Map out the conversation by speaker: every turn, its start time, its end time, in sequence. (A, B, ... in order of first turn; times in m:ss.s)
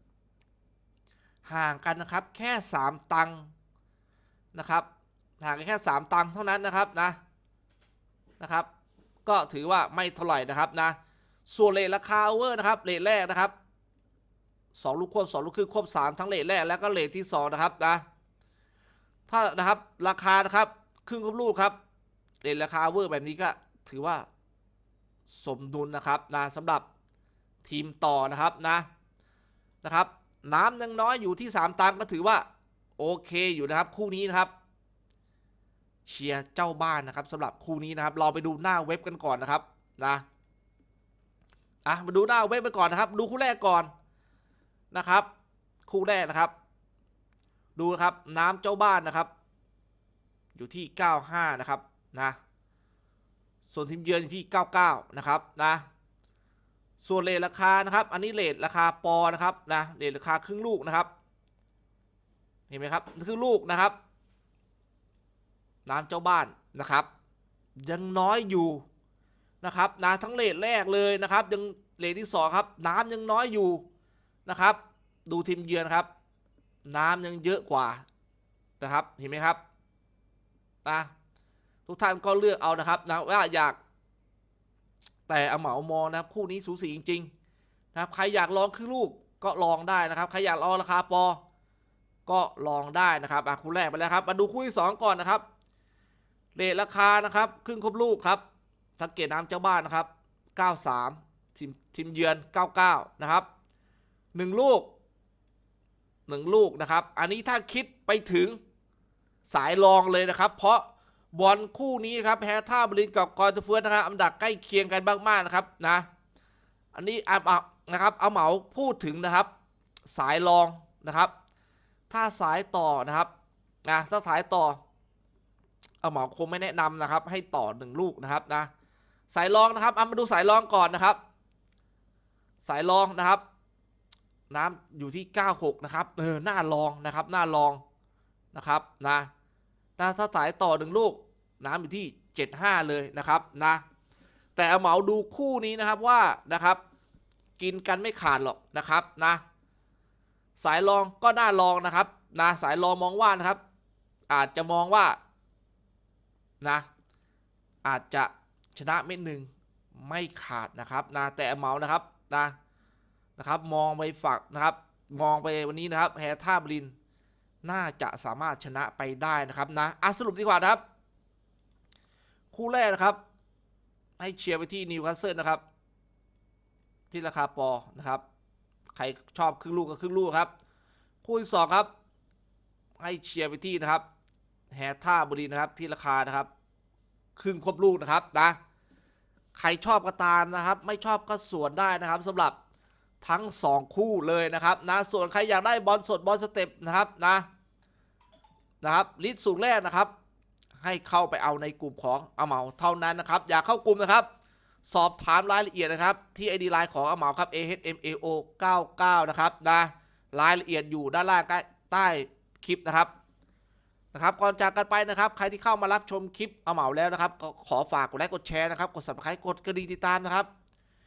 0:01.4-0:03.5 A
0:04.5-0:04.9 A
0:05.4-0:07.2 A
0:08.4-0:08.7 A
0:09.2-0:13.5 A
0:14.7-0:18.0 A
0:19.3-0:21.8 A
0:22.4-0:24.3 A
0:25.3-0:26.8 A
0:27.6-0:28.9 A
0:29.8-0:32.4 A
0:33.0-0:34.5 A
0:36.0-0:40.2 A
0:41.8-0:43.9 A
0:44.9-0:45.3 A
0:45.9-0:46.5 A
0:47.8-0:49.3 A
0:50.6-0:52.4 A
0:53.7-0:55.9 A
0:57.0-1:01.1 A
1:02.7-1:04.0 A
1:05.9-1:07.1 A
1:07.8-1:08.8 A
1:09.6-1:13.9 A
1:14.5-1:16.1 A
1:16.8-1:18.0 A
1:18.8-1:19.6 A
1:20.8-1:21.1 A
1:21.9-1:23.8 A
1:25.3-1:27.3 A
1:27.9-1:31.4 A
1:32.3-1:35.4 A
1:36.6-1:38.4 A
1:39.0-1:43.5 A
1:44.3-1:44.9 A
1:46.3-1:48.6 A
1:49.5-1:56.1 A
1:56.9-1:59.5 A
2:00.1-2:01.3 A
2:02.1-2:03.3 A
2:03.8-2:04.8 A
2:06.0-2:08.7 A
2:09.3-2:11.2 A
2:12.6-2:13.4 A
2:14.5-2:17.8 A
2:18.5-2:19.3 A
2:20.0-2:23.8 A
2:24.6-2:26.8 A
2:27.6-2:29.4 A
2:30.6-2:33.6 A
2:34.3-2:35.2 A
2:36.6-2:36.9 A
2:37.8-2:42.6 A
2:43.4-2:46.9 A
2:47.6-2:50.8 A
2:52.5-2:53.2 A
2:54.2-2:55.6 A
2:57.1-2:58.2 A
2:58.9-3:00.5 A
3:01.2-3:01.9 A
3:03.0-3:04.0 A
3:04.7-3:06.5 A
3:07.4-3:08.6 A
3:09.5-3:12.6 A
3:13.2-3:17.5 A
3:18.8-3:20.1 A
3:20.8-3:24.3 A
3:24.8-3:33.1 A
3:34.1-3:40.5 A